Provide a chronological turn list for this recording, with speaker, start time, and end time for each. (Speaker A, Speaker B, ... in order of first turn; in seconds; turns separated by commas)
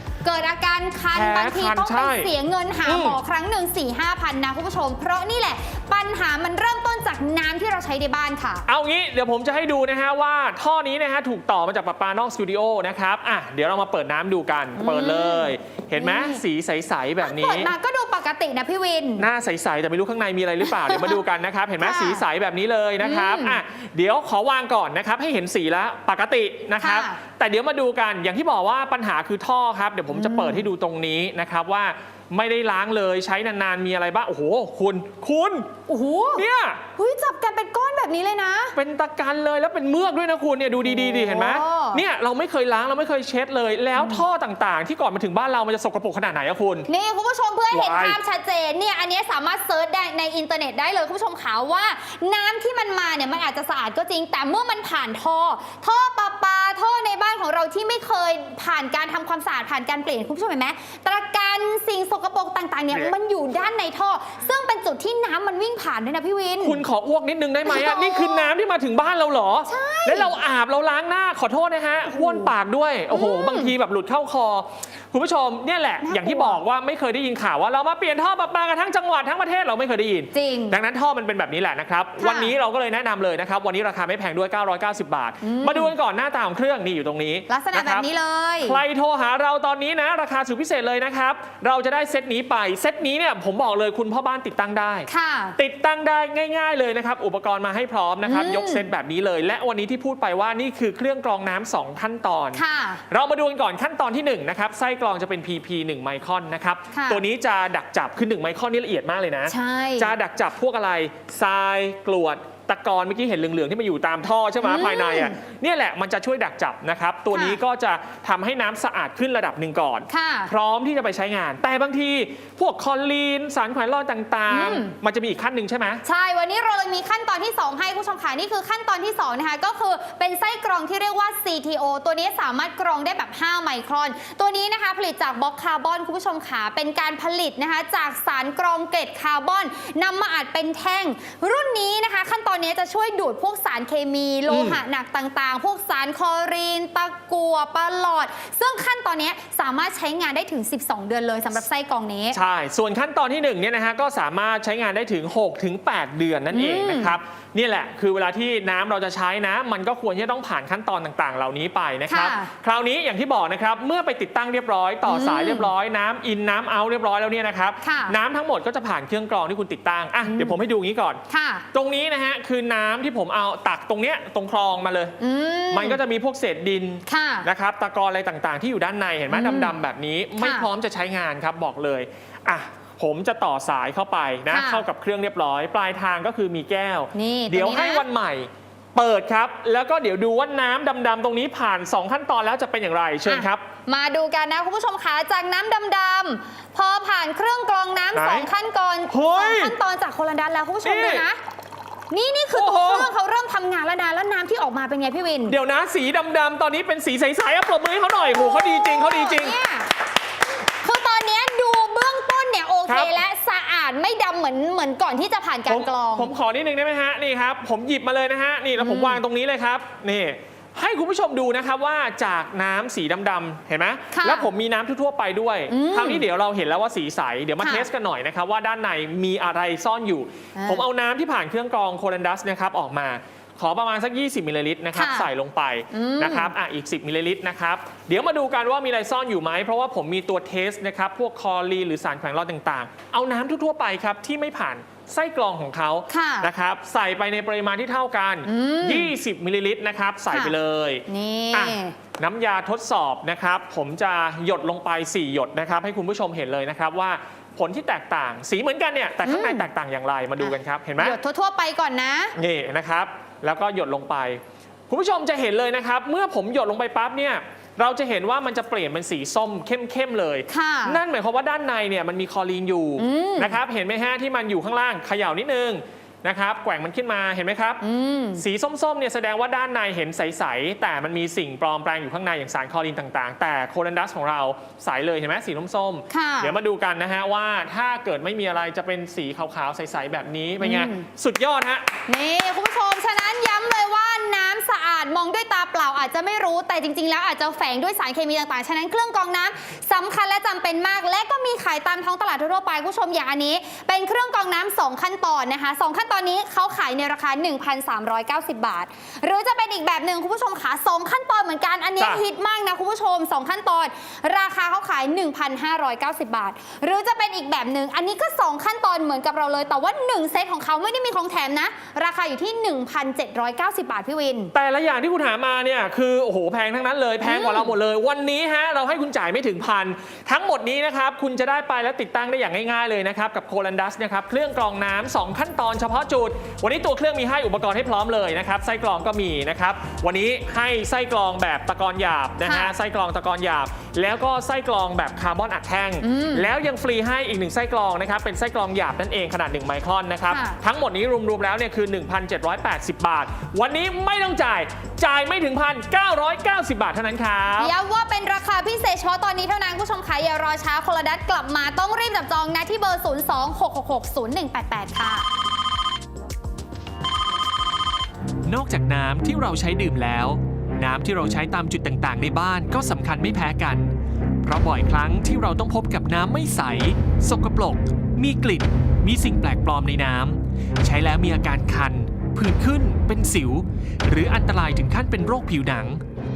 Speaker A: 0.2-8.7, Speaker B: 1.1-2.3, Speaker B: 2.9-3.2, Speaker B: 8.7-17.7, Speaker A: 14.8-16.4, Speaker A: 17.2-19.3, Speaker B: 19.2-35.7, Speaker A: 20.7-21.2, Speaker A: 21.8-22.2, Speaker A: 23.0-23.6, Speaker A: 26.8-27.2, Speaker A: 30.1-30.6, Speaker A: 35.9-38.8, Speaker B: 36.4-36.8, Speaker B: 38.8-46.9, Speaker A: 40.9-42.0, Speaker A: 44.0-44.2, Speaker A: 46.9-66.8, Speaker B: 47.7-48.2, Speaker B: 66.6-88.1, Speaker A: 67.7-68.5, Speaker A: 69.7-70.3, Speaker A: 72.1-72.5, Speaker A: 73.1-73.7, Speaker A: 76.0-76.6, Speaker A: 80.3-80.8, Speaker A: 82.2-82.5, Speaker A: 85.4-85.9, Speaker A: 87.5-88.8, Speaker B: 88.6-126.0, Speaker A: 95.1-95.6, Speaker A: 98.2-98.9, Speaker A: 102.5-103.0, Speaker A: 106.9-107.2, Speaker A: 109.5-110.1, Speaker A: 114.6-115.4, Speaker A: 117.3-117.6, Speaker A: 120.1-120.5, Speaker A: 124.5-124.9, Speaker A: 126.0-152.4, Speaker B: 144.5-144.8, Speaker B: 152.3-171.2, Speaker A: 156.5-157.2, Speaker A: 162.1-162.5, Speaker A: 165.1-165.7, Speaker A: 167.8-168.2, Speaker A: 170.2-170.6, Speaker A: 171.3-171.7, Speaker B: 171.7-175.2, Speaker A: 175.2-176.0, Speaker B: 175.7-193.6, Speaker A: 177.1-177.5, Speaker A: 179.3-179.7, Speaker A: 180.4-180.7, Speaker A: 184.5-184.8, Speaker A: 187.1-188.1, Speaker A: 193.3-201.4, Speaker B: 198.1-198.5, Speaker B: 199.1-199.8, Speaker B: 200.8-201.3, Speaker A: 202.1-205.6, Speaker B: 202.5-203.1, Speaker B: 205.5-209.6, Speaker A: 208.3-209.9, Speaker A: 210.8-216.3, Speaker B: 212.9-213.2, Speaker B: 215.7-261.2, Speaker A: 218.8-219.2, Speaker A: 224.1-224.5, Speaker A: 225.7-226.2, Speaker A: 227.6-227.9, Speaker A: 230.6-230.8, Speaker A: 234.9-235.3, Speaker A: 235.9-236.5, Speaker A: 246.1-246.5, Speaker A: 248.4-249.1, Speaker A: 250.3-250.6, Speaker A: 251.1-251.9, Speaker A: 259.2-259.7, Speaker A: 260.4-262.4, Speaker B: 262.4-277.8, Speaker A: 270.5-271.0, Speaker A: 273.0-273.6, Speaker A: 277.8-278.4, Speaker B: 278.4-291.9, Speaker A: 286.1-286.6, Speaker A: 290.6-291.1, Speaker A: 292.1-324.5, Speaker B: 324.5-357.7, Speaker A: 327.2-327.7, Speaker A: 342.4-342.7, Speaker A: 346.0-346.5, Speaker A: 350.3-350.6, Speaker A: 357.6-365.3, Speaker B: 368.5-373.9, Speaker B: 374.4-386.0